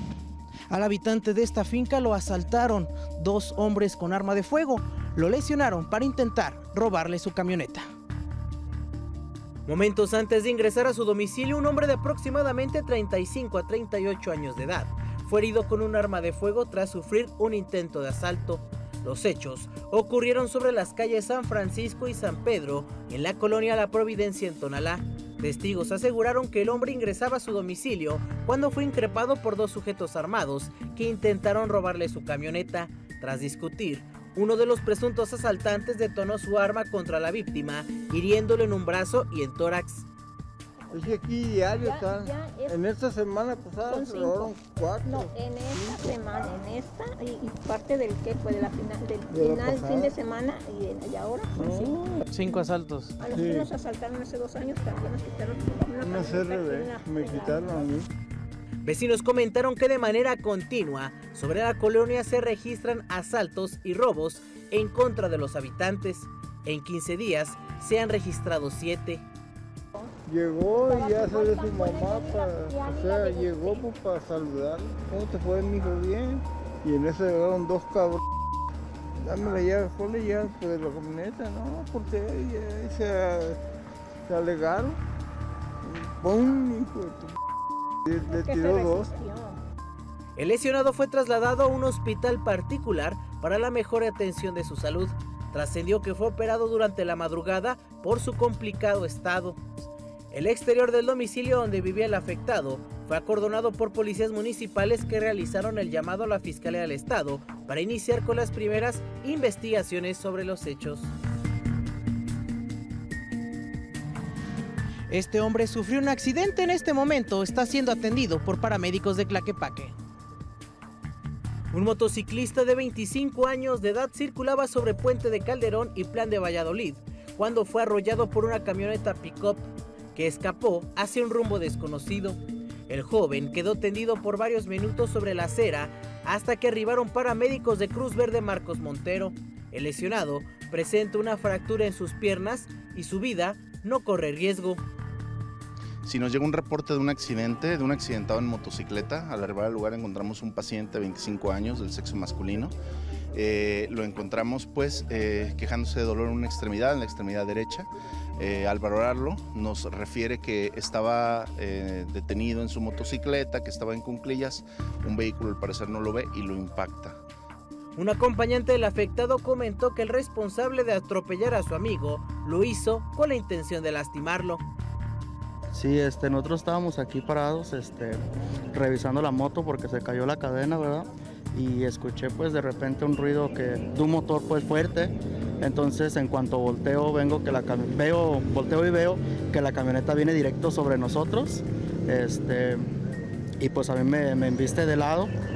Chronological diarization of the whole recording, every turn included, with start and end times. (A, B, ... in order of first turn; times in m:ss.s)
0:00.7-0:07.9 A
0:09.7-0:40.1 A
0:40.9-0:46.6 B
0:41.8-0:42.8 C
0:43.9-0:44.5 C
0:45.1-0:52.0 C
0:49.3-0:50.2 B
0:51.6-0:52.2 B
0:52.3-0:53.2 A
0:53.2-0:57.8 C
0:53.3-0:53.7 B
0:56.0-0:58.1 B
0:58.8-1:09.2 A
1:10.3-1:18.2 B
1:10.8-1:13.8 C
1:19.2-1:23.6 B
1:24.3-1:25.0 B
1:25.8-1:27.3 B
1:28.1-1:29.1 B
1:28.2-1:29.6 C
1:30.4-1:39.6 A
1:40.3-1:51.1 A
1:55.1-2:00.0 A
2:01.7-2:24.8 A
2:26.0-2:32.7 D
2:33.3-2:47.2 D
2:48.0-2:54.6 A
2:55.7-3:12.8 E
3:13.6-3:15.3 E